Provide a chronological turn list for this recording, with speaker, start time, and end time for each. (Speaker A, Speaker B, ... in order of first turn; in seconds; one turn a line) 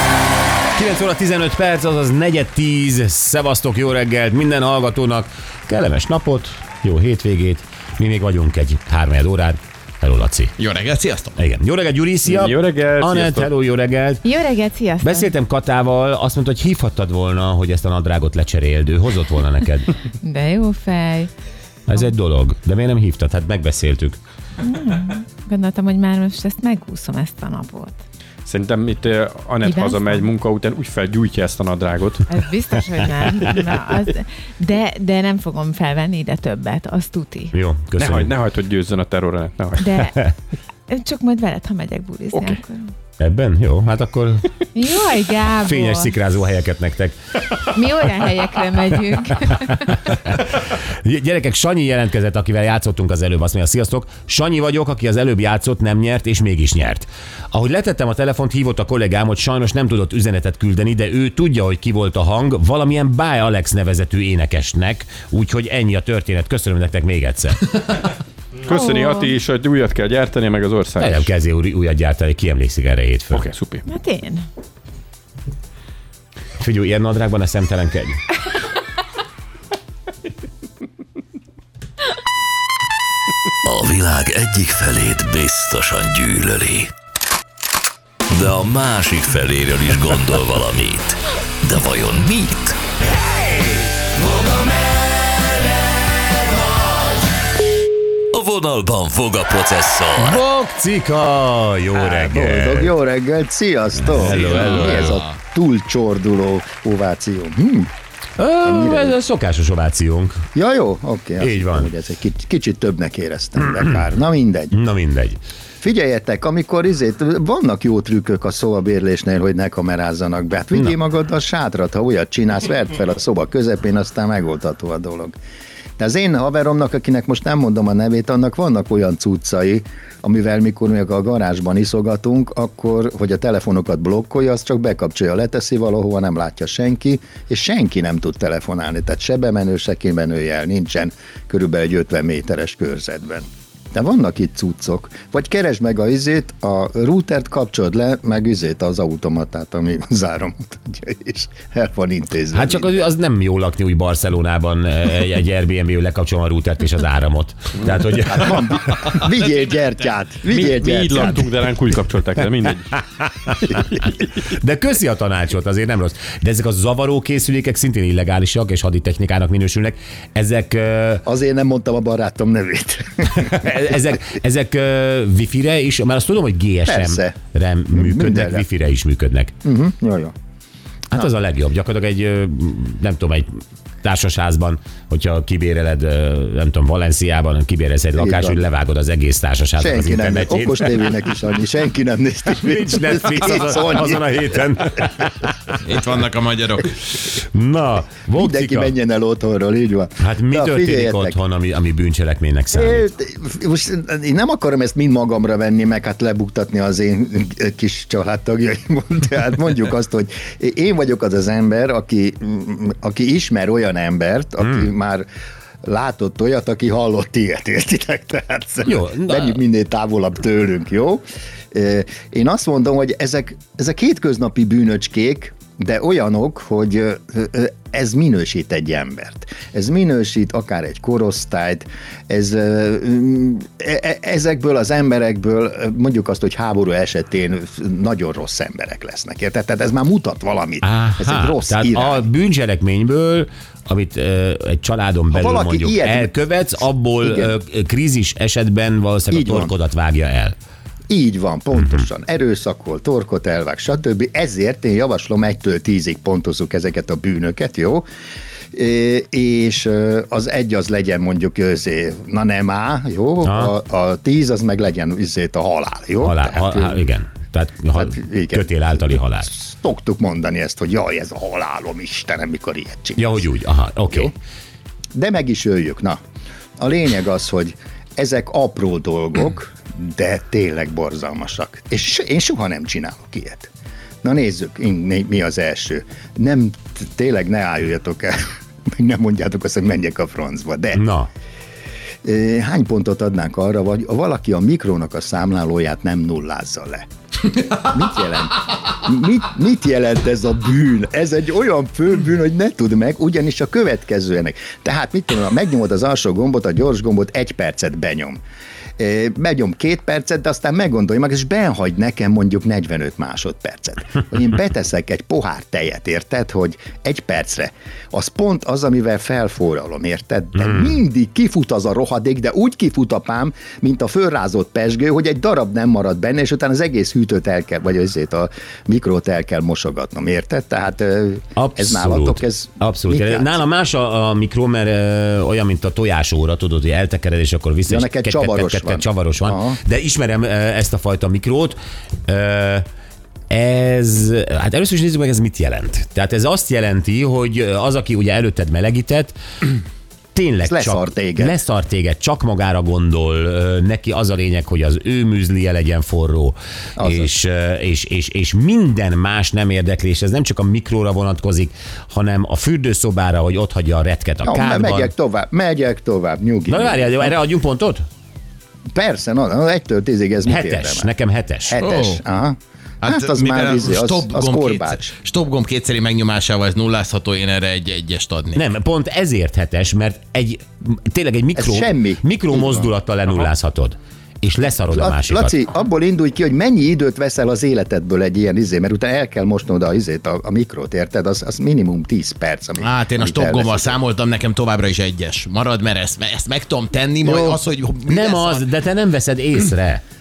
Speaker A: 0.7-10.5
Speaker B: 10.6-11.3
Speaker A: 11.3-14.2
Speaker C: 12.2-13.5
Speaker D: 14.2-15.3
Speaker A: 15.0-19.9
Speaker D: 20.2-21.3
Speaker A: 21.9-24.2
Speaker D: 24.6-28.0
Speaker C: 28.4-32.3
Speaker D: 29.6-30.3
Speaker D: 32.3-37.5
Speaker A: 37.5-38.3
Speaker C: 38.0-40.0
Speaker D: 39.8-40.1
Speaker D: 40.9-42.9
Speaker A: 43.2-44.5
Speaker D: 44.7-46.1
Speaker A: 45.6-47.2
Speaker D: 47.6-50.2
Speaker A: 50.0-67.7
Speaker C: 68.6-71.3
Speaker D: 68.7-69.3
Speaker A: 71.0-73.5
Speaker C: 73.3-73.8
Speaker D: 73.8-74.4
Speaker A: 76.6-78.2
Speaker E: 83.6-86.9
Speaker E: 88.3-92.8
Speaker E: 98.3-100.4
Speaker A: 100.2-102.9
Speaker F: 101.9-107.9
Speaker A: 104.0-105.2
Speaker B: 104.2-105.3
Speaker A: 108.4-110.5
Speaker F: 108.6-109.2
Speaker F: 110.5-114.8
Speaker A: 111.4-111.9
Speaker A: 114.7-115.4
Speaker F: 115.8-125.3
Speaker F: 126.0-153.0
Speaker A: 152.5-159.2
Speaker F: 158.3-161.5
Speaker B: 159.2-160.3
Speaker C: 160.4-162.9
Speaker A: 162.9-171.2
Speaker F: 171.2-173.6
Speaker A: 173.3-179.5
Speaker F: 176.8-177.3
Speaker F: 177.9-178.6
Speaker F: 179.6-180.3
Speaker A: 181.1-191.2
Speaker F: 188.2-188.6
Speaker F: 189.8-194.3
Speaker A: 192.6-195.7
Speaker B: 195.8-196.9
Speaker A: 197.2-198.9
Speaker F: 198.3-201.4
Speaker A: 200.2-203.1
Speaker F: 202.7-215.3
Speaker A: 214.6-214.9
Speaker F: 215.8-221.2
Speaker A: 218.8-219.6
Speaker F: 221.7-242.2
Speaker A: 240.8-250.5
Speaker F: 245.3-246.4
Speaker F: 247.2-247.5
Speaker F: 249.3-249.7
Speaker F: 251.1-258.0
Speaker A: 251.8-252.0
Speaker F: 258.7-267.0
Speaker A: 263.4-263.7
Speaker A: 266.2-269.5
Speaker F: 267.9-273.4
Speaker A: 273.2-274.3
Speaker F: 275.1-276.2
Speaker F: 276.8-283.7
Speaker F: 284.2-288.3
Speaker F: 288.9-291.0
Speaker A: 290.9-291.3
Speaker F: 292.2-297.1
Speaker F: 297.7-308.4
Speaker F: 309.0-333.6
Speaker A: 320.6-320.9
Speaker A: 331.6-342.9
Speaker F: 337.9-339.8
Speaker A: 343.5-349.3
Speaker A: 350.3-365.1
Speaker F: 350.6-351.6
Speaker F: 357.0-357.3
Speaker F: 364.4-367.3
Speaker A: 366.7-368.0
Speaker F: 368.9-371.1
Speaker A: 370.4-371.7
Speaker F: 371.6-375.1
Speaker B: 371.8-372.2
Speaker B: 373.0-378.6
Speaker A: 378.5-385.6
Speaker F: 381.6-382.9
Speaker F: 384.9-394.0
Speaker B: 392.8-398.6
Speaker F: 397.2-397.6
Speaker A: 398.1-400.0